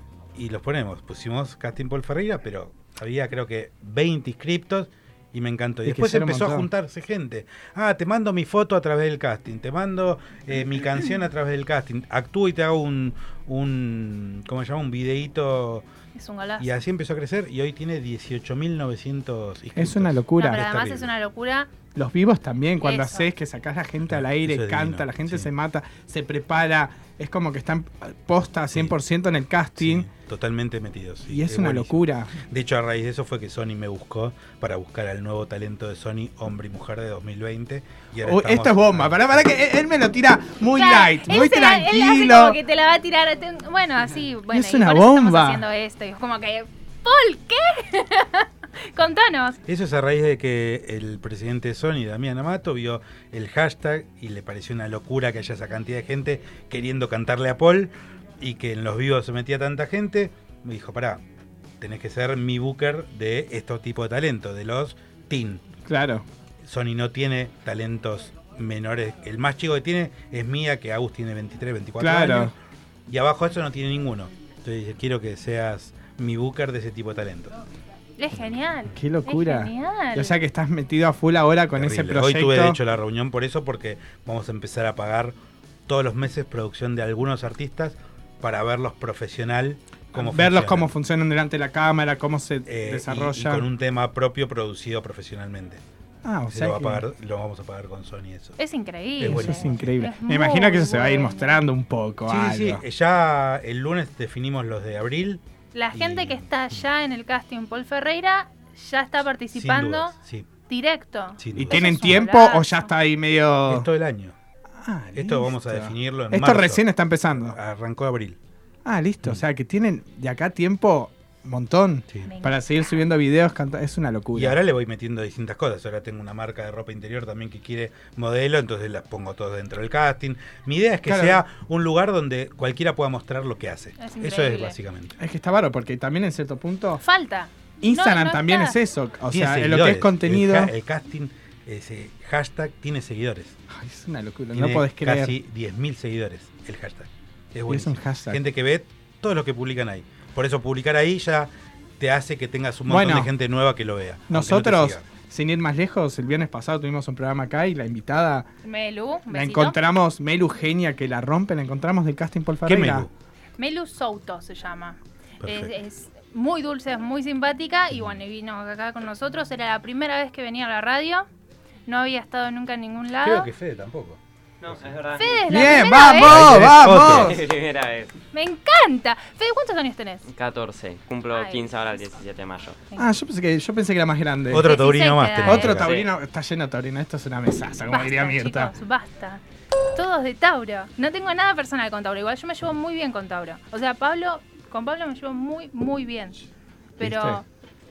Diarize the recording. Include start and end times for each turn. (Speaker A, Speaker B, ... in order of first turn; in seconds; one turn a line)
Speaker A: 0.3-15.8
Speaker B: 5.8-6.7
Speaker C: 16.1-16.7
Speaker A: 16.6-21.1
Speaker B: 19.8-20.6
Speaker C: 20.4-21.7
Speaker B: 21.9-30.1
Speaker C: 22.8-23.3
Speaker A: 24.1-25.5
Speaker A: 29.8-39.4
Speaker B: 31.3-32.3
Speaker B: 38.2-42.6
Speaker C: 40.7-49.6
Speaker B: 44.5-45.6
Speaker A: 49.6-61.2
Speaker A: 61.8-65.7
Speaker B: 65.9-66.2
Speaker A: 66.6-72.5
Speaker B: 72.0-72.5
Speaker A: 73.1-77.6
Speaker C: 78.2-80.4
Speaker B: 78.9-82.8
Speaker A: 81.7-85.3
Speaker A: 85.9-90.9
Speaker B: 90.1-93.6
Speaker A: 92.7-95.8
Speaker B: 96.2-97.0
Speaker A: 96.5-98.6
Speaker C: 98.6-101.6
Speaker B: 99.2-102.8
Speaker A: 99.2-100.0
Speaker A: 102.3-105.4
Speaker C: 105.7-110.1
Speaker A: 105.9-106.8
Speaker A: 109.5-110.5
Speaker C: 110.7-112.9
Speaker A: 111.4-112.2
Speaker B: 111.5-113.9
Speaker A: 113.7-114.3
Speaker B: 114.8-117.6
Speaker A: 115.1-118.4
Speaker B: 118.8-124.6
Speaker C: 122.2-123.1
Speaker A: 124.3-135.2
Speaker B: 131.1-131.4
Speaker C: 134.0-134.8
Speaker B: 135.2-137.0
Speaker C: 137.0-138.8
Speaker B: 137.8-140.7
Speaker A: 139.3-143.6
Speaker B: 143.7-145.3
Speaker A: 144.5-155.0
Speaker B: 147.7-148.4
Speaker B: 152.9-153.3
Speaker B: 154.3-158.5
Speaker C: 158.6-159.8
Speaker B: 159.3-163.1
Speaker A: 162.6-163.1
Speaker C: 163.6-171.2
Speaker A: 165.4-165.7
Speaker C: 171.9-173.5
Speaker A: 173.2-174.9
Speaker D: 174.6-175.4
Speaker C: 175.2-176.4
Speaker B: 175.5-177.4
Speaker A: 176.2-177.4
Speaker D: 176.7-178.1
Speaker C: 178.3-180.2
Speaker D: 180.3-182.8
Speaker C: 181.3-182.0
Speaker B: 183.0-184.7
Speaker A: 184.5-186.0
Speaker C: 184.6-185.8
Speaker B: 185.4-188.7
Speaker D: 185.8-186.1
Speaker C: 187.9-189.4
Speaker C: 189.9-196.4
Speaker C: 197.0-197.4
Speaker B: 197.0-197.4